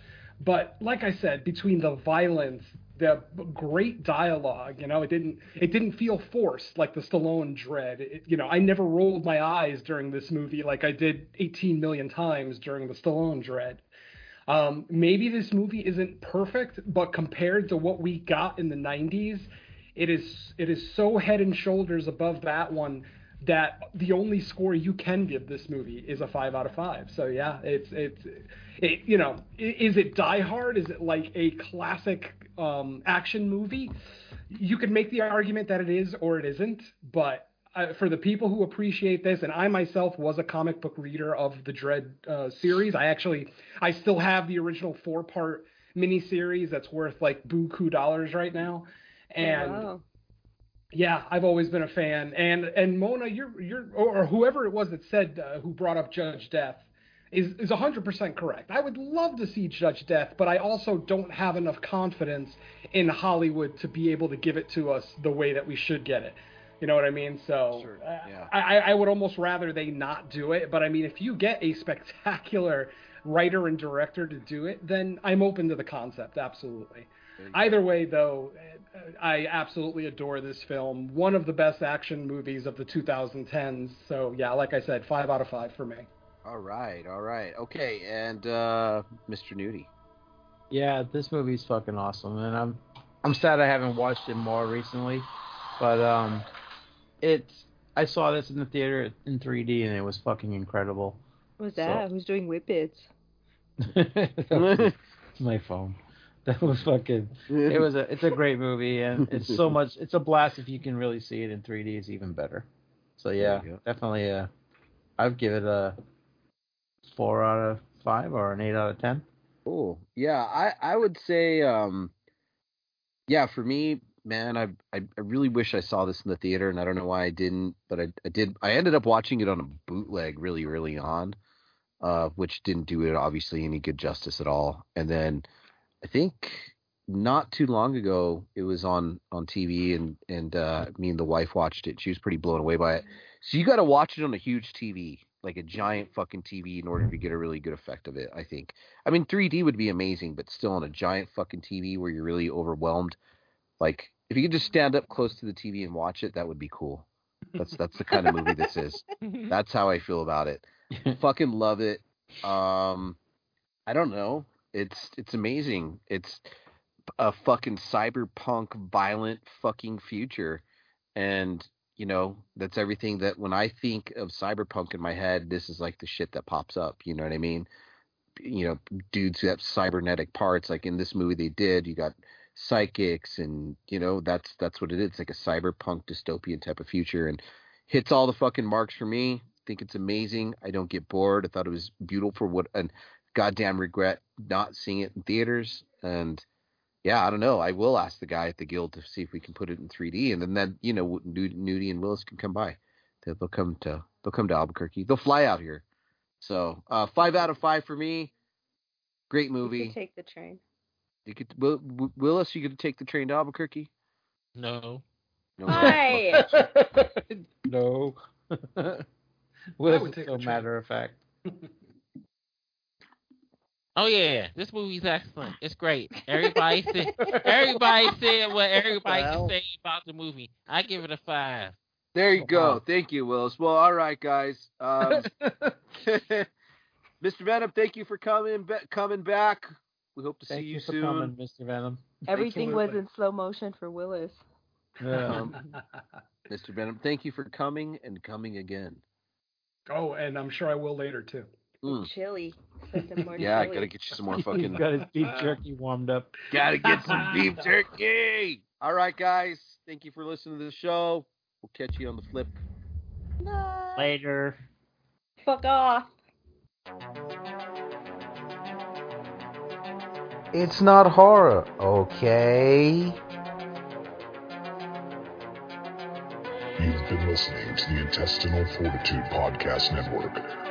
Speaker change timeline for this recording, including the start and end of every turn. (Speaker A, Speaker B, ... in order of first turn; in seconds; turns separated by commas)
Speaker A: 0.4-13.8, Speaker A: 14.5-33.9, Speaker A: 34.5-49.9, Speaker B: 49.4-50.0, Speaker A: 50.9-86.1, Speaker C: 67.7-68.5, Speaker C: 77.4-77.7, Speaker C: 86.4-89.9, Speaker D: 90.7-96.5, Speaker D: 97.2-101.2, Speaker B: 101.6-103.1, Speaker D: 103.8-112.7, Speaker C: 104.5-105.0, Speaker C: 107.5-107.8, Speaker D: 113.2-114.5, Speaker C: 113.4-113.8, Speaker D: 115.2-116.0, Speaker D: 117.1-119.2, Speaker C: 119.6-122.1, Speaker C: 123.3-131.4, Speaker C: 132.0-135.4, Speaker C: 136.0-153.2, Speaker C: 153.8-163.2, Speaker D: 160.9-161.2, Speaker C: 163.9-166.4, Speaker C: 167.2-170.6, Speaker C: 171.2-177.7, Speaker C: 178.4-196.4, Speaker C: 197.0-205.8, Speaker C: 206.4-208.3, Speaker C: 209.3-209.9, Speaker B: 209.6-210.6, Speaker C: 211.2-213.9, Speaker E: 214.6-215.0, Speaker C: 215.6-216.6, Speaker B: 215.7-216.4, Speaker D: 215.7-219.0, Speaker D: 219.8-221.2, Speaker A: 219.8-220.7, Speaker E: 223.9-231.8, Speaker D: 227.3-227.6, Speaker D: 229.0-229.5, Speaker C: 232.1-235.3, Speaker D: 232.4-232.8, Speaker D: 235.0-235.7, Speaker C: 236.0-236.5, Speaker C: 237.2-241.3, Speaker D: 240.5-242.9, Speaker B: 242.3-244.4, Speaker D: 245.0-245.5, Speaker A: 245.0-245.8, Speaker C: 245.2-245.6, Speaker C: 246.5-249.0, Speaker A: 249.9-251.5, Speaker C: 251.8-252.1, Speaker B: 251.9-253.9, Speaker C: 253.4-254.8, Speaker A: 254.5-255.5, Speaker D: 254.6-256.3, Speaker C: 256.5-262.6, Speaker A: 256.9-257.5, Speaker C: 263.5-263.9, Speaker D: 264.0-264.5, Speaker B: 265.4-266.1, Speaker C: 270.5-273.2, Speaker F: 276.8-280.4